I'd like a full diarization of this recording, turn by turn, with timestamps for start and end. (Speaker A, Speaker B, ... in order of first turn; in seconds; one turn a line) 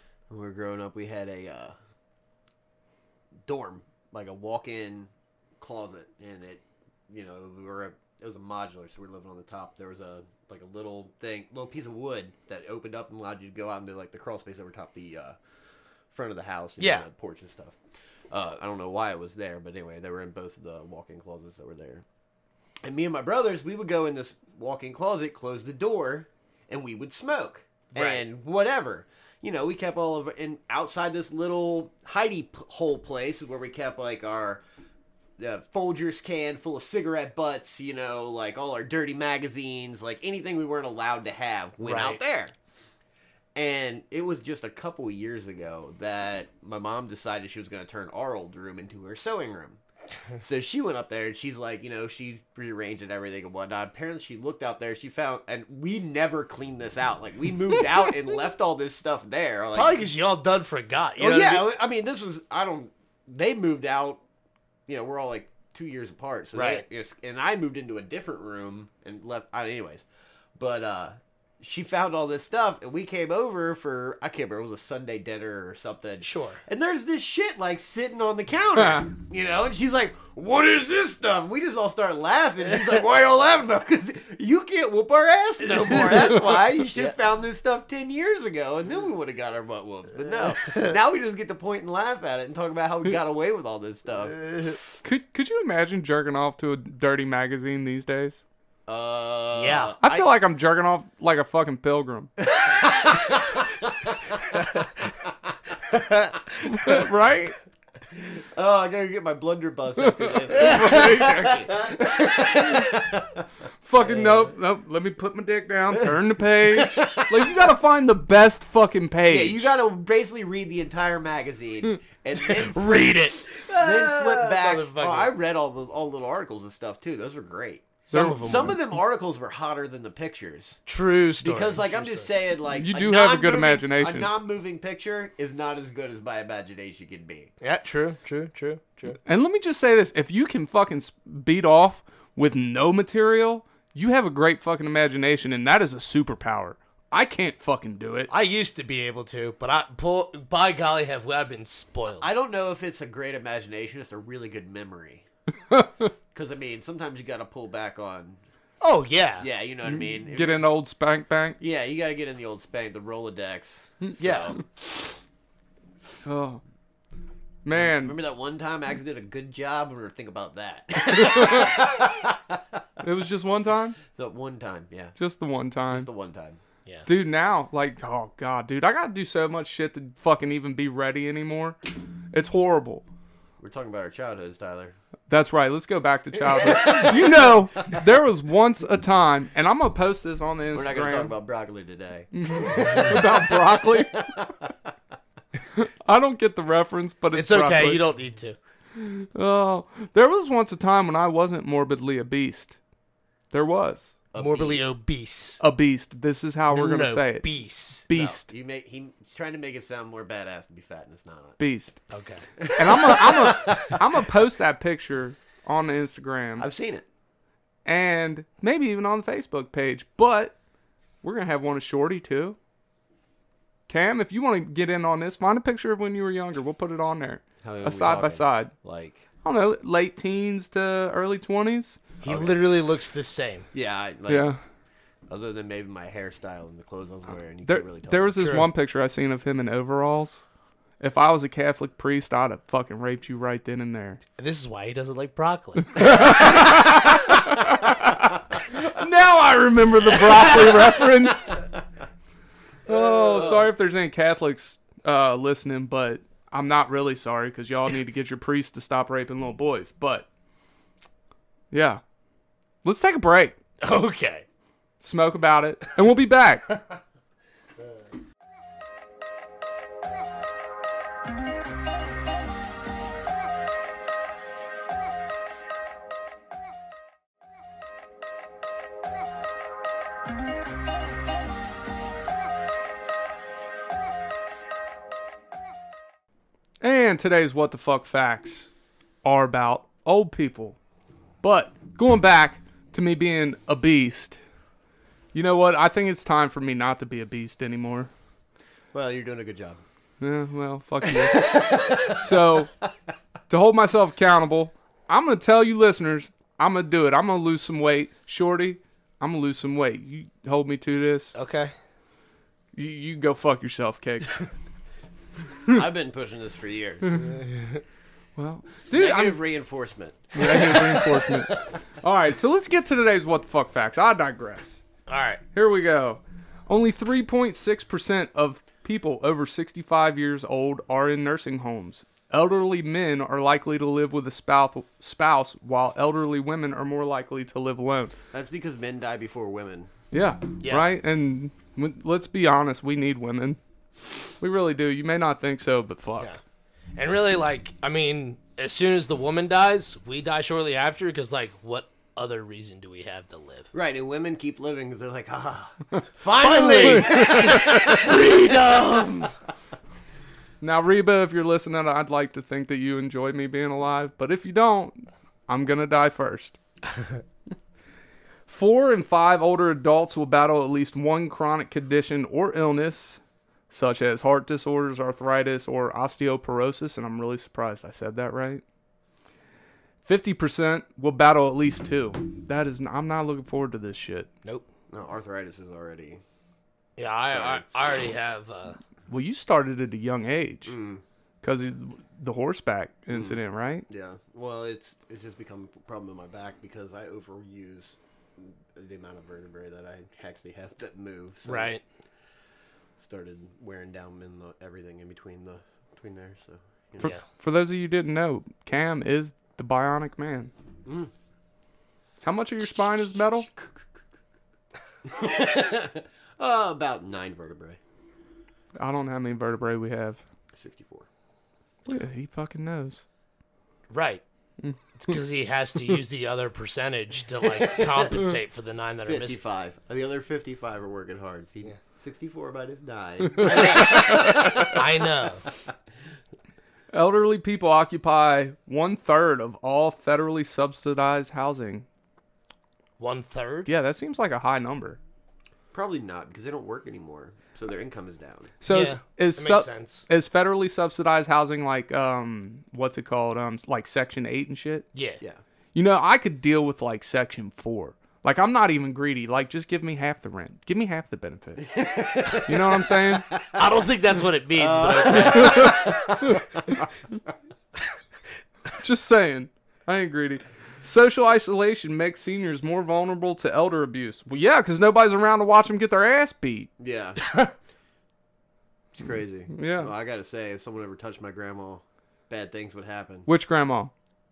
Speaker A: 0.3-1.7
Speaker A: 3.5-15.4
Speaker A: 16.1-17.8
Speaker B: 16.8-17.1
Speaker A: 18.3-22.1
Speaker A: 22.8-34.6
Speaker B: 27.9-28.2
Speaker A: 35.4-42.5
Speaker B: 41.8-42.2
Speaker A: 43.5-49.8
Speaker A: 50.4-60.0
Speaker B: 59.7-61.7
Speaker A: 61.2-64.2
Speaker A: 64.9-70.0
Speaker B: 66.5-66.8
Speaker A: 70.6-94.8
Speaker B: 76.2-76.6
Speaker C: 78.8-79.1
Speaker B: 85.6-87.2
Speaker C: 95.0-98.4
Speaker A: 98.9-100.3
Speaker B: 99.5-100.0
Speaker C: 100.0-102.3
Speaker A: 102.5-104.4
Speaker C: 106.7-107.6
Speaker A: 108.4-113.4
Speaker C: 110.0-111.7
Speaker B: 110.7-111.1
Speaker C: 113.8-119.7
Speaker A: 114.0-114.5
Speaker A: 116.8-117.3
Speaker A: 119.3-130.8
Speaker B: 122.4-125.3
Speaker C: 128.1-128.8
Speaker B: 128.1-128.8
Speaker B: 130.9-132.3
Speaker A: 131.4-137.5
Speaker C: 132.7-134.3
Speaker B: 137.6-139.2
Speaker C: 139.2-148.3
Speaker B: 148.3-152.3
Speaker A: 152.2-155.3
Speaker C: 155.7-156.1
Speaker A: 156.3-158.4
Speaker B: 158.8-159.5
Speaker A: 159.4-160.6
Speaker C: 159.8-161.6
Speaker A: 161.6-164.6
Speaker B: 164.2-164.5
Speaker C: 166.2-166.6
Speaker C: 167.6-168.2
Speaker A: 167.8-172.8
Speaker C: 171.2-171.7
Speaker C: 173.0-174.0
Speaker A: 174.1-175.2
Speaker C: 175.2-176.1
Speaker A: 175.9-176.6
Speaker C: 177.1-181.8
Speaker C: 182.3-183.1
Speaker A: 183.6-185.0
Speaker C: 185.3-191.3
Speaker A: 186.4-188.0
Speaker A: 190.7-194.5
Speaker C: 192.3-194.3
Speaker C: 195.8-198.0
Speaker B: 197.3-198.6
Speaker C: 198.9-202.8
Speaker C: 203.5-204.2
Speaker A: 204.3-204.9
Speaker B: 204.4-205.6
Speaker C: 205.6-207.5
Speaker B: 206.7-208.1
Speaker C: 208.1-208.5
Speaker A: 208.1-211.6
Speaker C: 211.6-212.0
Speaker B: 212.1-212.5
Speaker A: 212.6-214.0
Speaker C: 212.8-216.7
Speaker A: 216.6-217.1
Speaker C: 217.8-220.5
Speaker C: 221.2-222.6
Speaker C: 223.9-228.7
Speaker A: 227.6-229.2
Speaker C: 229.4-232.0
Speaker B: 232.2-233.7
Speaker A: 232.2-232.6
Speaker A: 233.7-234.5
Speaker C: 234.3-234.6
Speaker A: 235.3-238.6
Speaker C: 237.7-240.4
Speaker B: 238.4-238.7
Speaker C: 241.0-244.2
Speaker B: 244.4-246.4
Speaker C: 245.9-251.6
Speaker A: 250.5-250.9
Speaker C: 252.9-260.3
Speaker A: 252.9-253.7
Speaker C: 261.7-262.0
Speaker C: 262.8-263.6
Speaker B: 263.8-264.4
Speaker C: 265.0-266.7
Speaker C: 286.8-288.7
Speaker C: 289.2-290.8
Speaker C: 291.4-294.4
Speaker C: 295.3-298.1
Speaker A: 298.9-299.8
Speaker C: 300.2-302.7
Speaker A: 301.3-302.1
Speaker C: 303.5-311.3
Speaker B: 311.3-311.7
Speaker C: 312.8-314.4
Speaker A: 315.7-317.2
Speaker B: 317.2-317.8
Speaker C: 318.4-319.4
Speaker A: 318.9-321.2
Speaker C: 320.3-324.8
Speaker B: 325.1-325.4
Speaker C: 325.5-338.1
Speaker A: 338.3-339.9
Speaker C: 340.1-343.6
Speaker B: 340.6-340.9
Speaker C: 344.4-346.3
Speaker B: 347.0-353.7
Speaker A: 353.7-359.3
Speaker B: 356.2-359.3
Speaker C: 356.8-357.9
Speaker C: 360.6-366.6
Speaker C: 368.5-378.6
Speaker C: 380.0-384.3
Speaker A: 384.9-386.2
Speaker B: 387.0-388.8
Speaker A: 387.3-387.6
Speaker C: 389.1-390.7
Speaker A: 390.7-391.0
Speaker C: 391.4-393.9
Speaker A: 393.1-401.8
Speaker B: 401.4-401.8
Speaker A: 403.0-407.1
Speaker C: 407.0-410.5
Speaker A: 410.9-411.1
Speaker C: 412.2-413.5
Speaker A: 415.1-417.8
Speaker C: 418.8-420.2
Speaker A: 420.5-421.1
Speaker C: 421.9-423.0
Speaker B: 423.9-424.2
Speaker C: 424.6-425.1
Speaker B: 424.9-429.4
Speaker A: 429.0-434.8
Speaker C: 433.4-434.7
Speaker B: 433.5-435.4
Speaker C: 436.9-441.9
Speaker B: 443.0-443.7
Speaker C: 443.7-445.0
Speaker A: 445.7-448.5
Speaker C: 448.6-454.9
Speaker B: 448.7-450.1
Speaker B: 454.9-455.2
Speaker C: 455.7-461.8
Speaker A: 461.6-462.8
Speaker C: 462.4-463.3
Speaker B: 463.6-466.0
Speaker A: 464.6-466.9
Speaker C: 465.2-466.8
Speaker C: 468.8-476.7
Speaker A: 476.8-477.3
Speaker B: 477.2-477.5
Speaker A: 478.9-483.3
Speaker C: 479.5-479.9
Speaker C: 483.3-483.9